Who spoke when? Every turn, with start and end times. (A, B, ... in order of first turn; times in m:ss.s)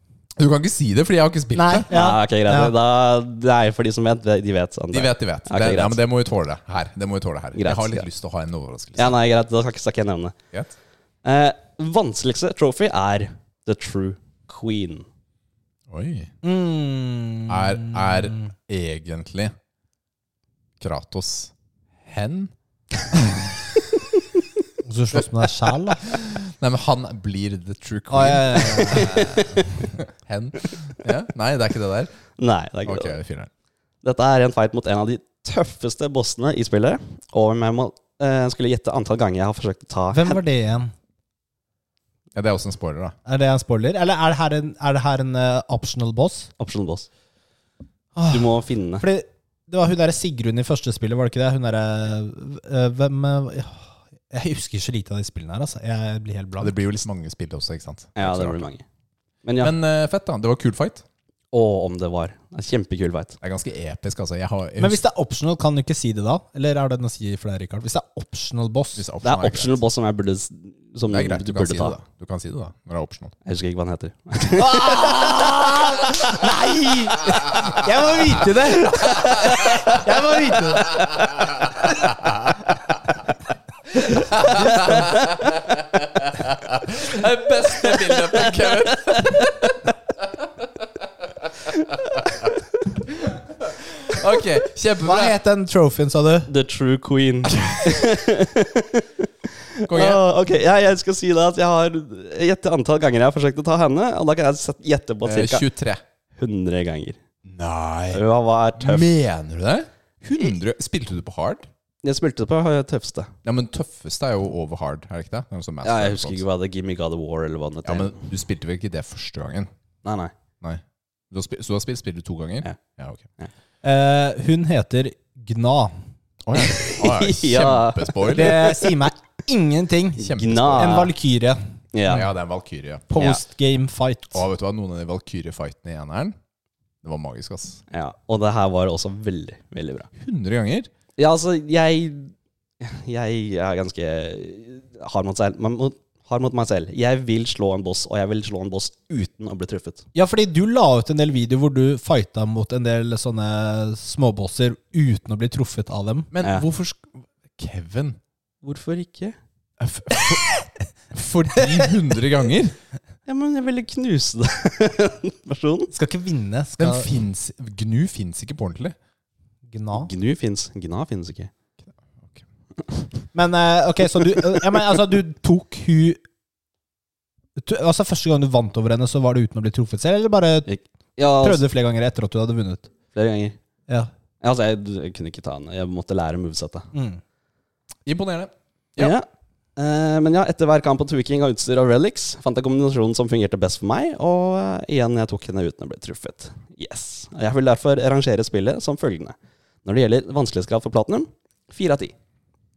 0:00.4-0:01.9 A
0:01.6-0:02.7 B
0:01.9-0:06.0 C
0:04.9-0:09.2 A
0:07.6-0:08.1 C
0:09.0-0:10.4 C
0:11.2-0:15.1 C
0:15.9-0:16.3 A
0:16.4-0:18.5 B
0:17.5-0:19.5 A
0:20.8-0:22.5 A
0:23.1-0:23.5 A
0:24.8-0:26.0 B
0:26.0-0:32.1 A
0:28.1-0:29.4 B
0:32.4-0:33.2 C
0:32.8-0:33.5 A
0:34.0-0:40.4 C
0:40.1-0:40.9 B
0:42.3-0:43.1 A
0:43.2-0:46.5 B
0:46.6-0:47.1 C
0:48.2-0:56.8 B
0:48.3-0:49.0 C
0:56.6-0:58.7 A
0:58.2-0:58.8 C
0:59.4-0:59.7 C
0:59.6-1:01.0 A
1:01.5-1:03.4 C
1:03.4-1:05.0 A
1:04.8-1:09.0 B
1:09.0-1:09.8 A
1:09.2-1:12.0 C
1:11.1-1:13.4 A
1:13.4-1:16.7 C
1:14.5-1:21.1 B
1:19.0-1:20.0 C
1:21.0-1:22.6 A
1:24.1-1:29.5 A
1:24.7-1:24.9 B
1:27.0-1:29.7 C
1:33.1-1:35.4 A
1:35.0-1:36.5 B
1:36.5-1:45.7 C
1:39.8-1:40.2 A
1:45.2-1:46.0 A
1:46.4-1:47.2 C
1:47.4-1:48.2 A
1:48.1-1:49.1 C
1:48.8-1:51.7 A
1:52.0-1:53.3 C
1:53.4-1:56.4 A
1:55.8-1:58.2 C
1:57.8-1:59.7 A
2:00.0-2:00.3 C
2:00.6-2:03.3 A
2:03.8-2:05.9 B
2:06.4-2:08.6 A
2:06.6-2:08.9 C
2:08.3-2:11.6 B
2:10.2-2:11.0 A
2:10.2-2:11.1 C
2:11.9-2:12.3 C
2:12.1-2:13.1 A
2:13.1-2:14.4 B
2:14.3-2:16.4 A
2:17.0-2:17.8 A
2:17.9-2:20.1 C
2:20.2-2:20.9 A
2:21.2-2:30.1 C
2:30.1-2:36.3 B
2:36.3-2:38.2 A
2:38.6-2:39.4 C
2:39.8-2:40.4 A
2:41.1-2:42.8 A
2:43.3-2:45.9 C
2:45.9-2:47.1 B
2:46.8-2:48.9 A
2:49.7-2:50.1 B
2:50.0-2:51.5 C
2:53.3-2:56.2 B
2:57.6-3:00.7 B
3:00.7-3:01.6 C
3:01.4-3:02.9 B
3:03.1-3:03.6 C
3:04.4-3:06.9 C
3:06.9-3:07.2 B
3:08.0-3:09.2 A
3:09.0-3:09.2 C
3:09.8-3:22.1 C